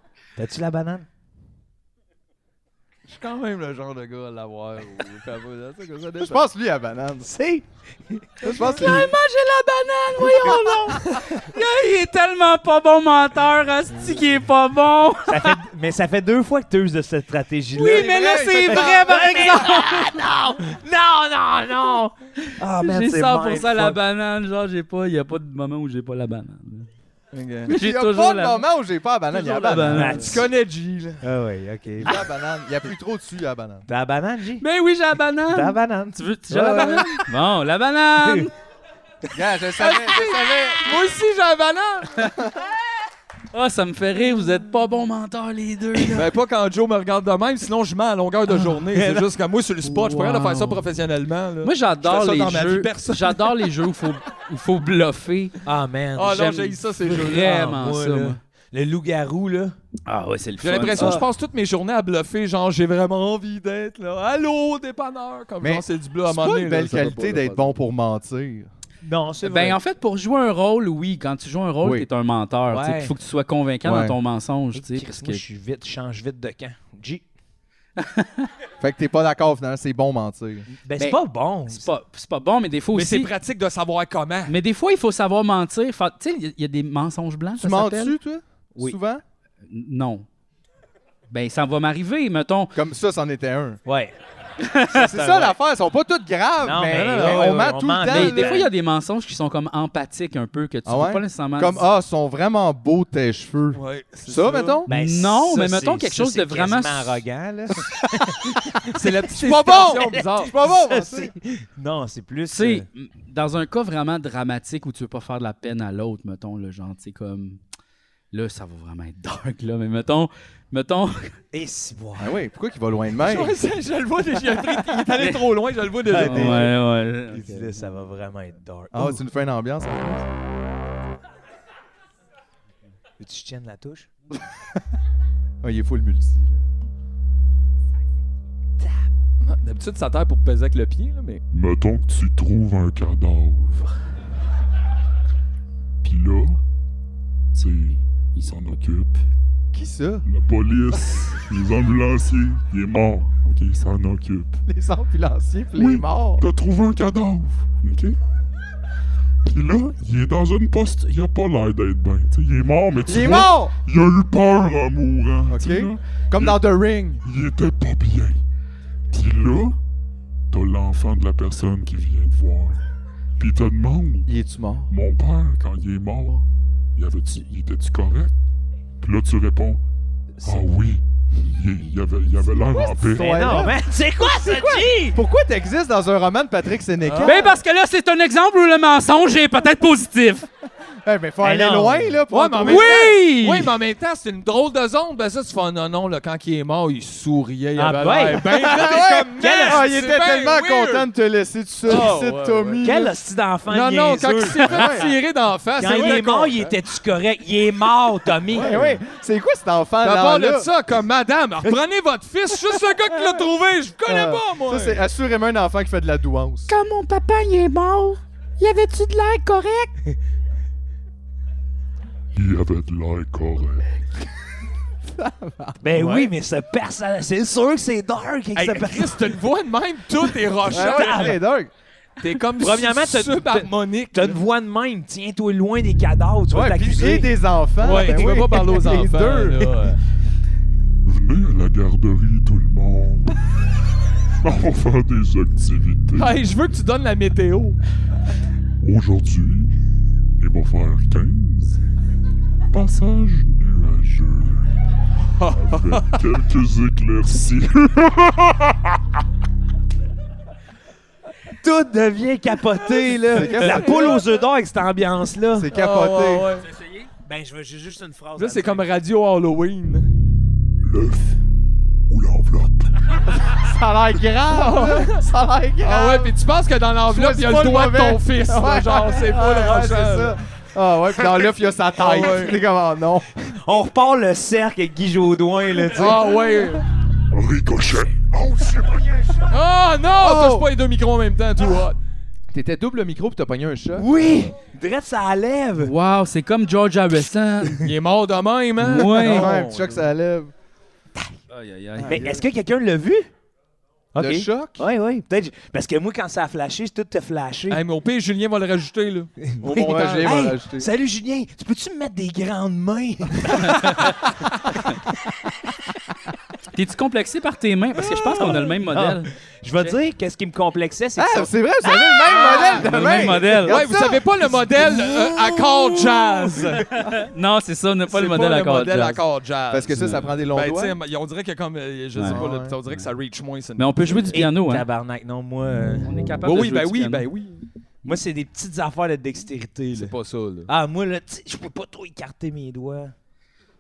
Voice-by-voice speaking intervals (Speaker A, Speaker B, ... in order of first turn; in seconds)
Speaker A: 0.3-1.1, 7.2-8.5, 10.3-11.0, 15.3-24.0, 29.8-30.5, 31.2-32.2, 33.9-34.6, 35.5-37.3, 48.9-49.2, 55.6-56.3, 57.2-59.7, 60.9-61.2, 69.0-69.8, 72.7-73.1, 74.7-77.2, 80.8-81.9, 93.8-94.2, 95.0-95.5, 96.6-98.7, 104.9-112.8, 121.5-122.3, 126.1-129.2, 133.2-134.1, 138.8-139.1, 183.1-185.2, 191.4-192.2, 197.8-199.9, 202.8-205.1, 205.8-208.9, 225.8-229.3, 230.7-231.4, 232.6-237.3, 261.6-265.7, 267.2-268.8, 283.4-286.2, 293.9-295.9, 302.1-303.3, 304.1-307.8, 309.4-314.3, 318.2-321.5, 326.2-326.7, 334.3-336.1, 338.0-340.1, 340.7-343.1
Speaker B: 3.1-6.5, 27.3-27.7, 30.1-31.2, 39.8-42.3, 46.1-53.7, 56.1-57.5, 60.6-67.7, 82.9-84.5, 96.9-97.4, 103.7-104.8, 108.9-110.5, 123.2-126.7, 139.4-141.4, 187.0-187.4, 192.3-201.1, 201.8-202.8, 203.7-206.7, 208.6-208.9, 210.0-215.0, 226.0-226.3, 228.5-231.4, 232.2-234.4, 237.8-240.0, 246.1-247.8, 255.4-256.2, 263.4-264.2, 265.7-266.7, 268.4-270.1, 274.5-275.2, 275.8-280.4, 282.0-282.6, 285.9-286.8, 289.5-292.0, 297.8-300.0, 307.7-309.3, 322.3-326.8, 328.1-334.4, 336.4-337.6, 339.9-340.7
Speaker C: 6.2-7.3, 8.4-9.1, 17.8-19.6, 27.7-30.3, 32.0-33.9, 39.3-40.9, 65.6-68.7, 71.8-72.1, 73.8-74.2, 78.8-80.7, 87.6-89.2, 92.7-93.8, 94.9-98.7, 100.8-104.9, 107.9-108.3, 109.3-111.3, 122.2-123.6, 128.9-130.2, 135.6-136.7, 149.7-150.3, 154.7-156.5, 163.1-163.7, 165.5-167.2, 174.3-174.9, 182.6-187.5, 191.0-193.2, 198.5-203.1, 204.6-205.1, 208.5-210.7, 214.1-216.7, 225.1-225.8, 230.7-231.7, 236.5-239.7, 263.3-264.2, 265.6-266.5, 273.4-276.4, 277.1-283.3, 290.1-290.7, 292.5-294.1, 299.2-300.5, 302.0-302.4, 304.1-304.9, 309.6-310.9, 321.2-325.0, 329.7-331.0, 332.2-332.8
Speaker D: 8.4-15.6, 17.8-20.1, 22.7-26.9, 27.7-28.6, 29.3-30.4, 34.6-38.5, 43.5-46.3, 49.8-50.8, 51.6-55.6, 56.2-58.4, 60.1-61.2, 69.4-75.4, 78.0-78.5, 81.0-83.3, 84.5-88.1, 89.7-90.2, 91.3-92.7, 94.6-95.0, 98.1-101.8, 104.9-107.2, 112.5-117.6, 118.3-121.4, 125.2-125.4, 126.1-127.7, 187.2-190.5, 192.6-193.7, 216.7-219.9, 295.8-297.8, 298.8-299.5, 301.5-302.3, 316.7-319.9, 322.3-323.8, 326.9-329.2, 332.1-332.4, 333.8-334.9, 336.0-337.3
Speaker E: 141.5-143.9, 146.0-146.6, 147.5-149.2, 150.2-154.6, 155.7-158.2, 159.4-166.6, 167.2-168.4, 169.1-169.8, 170.5-172.8, 173.4-174.3, 174.9-176.4, 176.9-178.3, 179.0-179.8, 180.4-183.4, 222.3-223.9, 241.0-243.4, 244.4-246.3, 248.8-249.7, 250.4-251.8, 252.7-254.7, 255.5-258.9, 270.8-271.4, 272.1-273.5, 287.3-289.5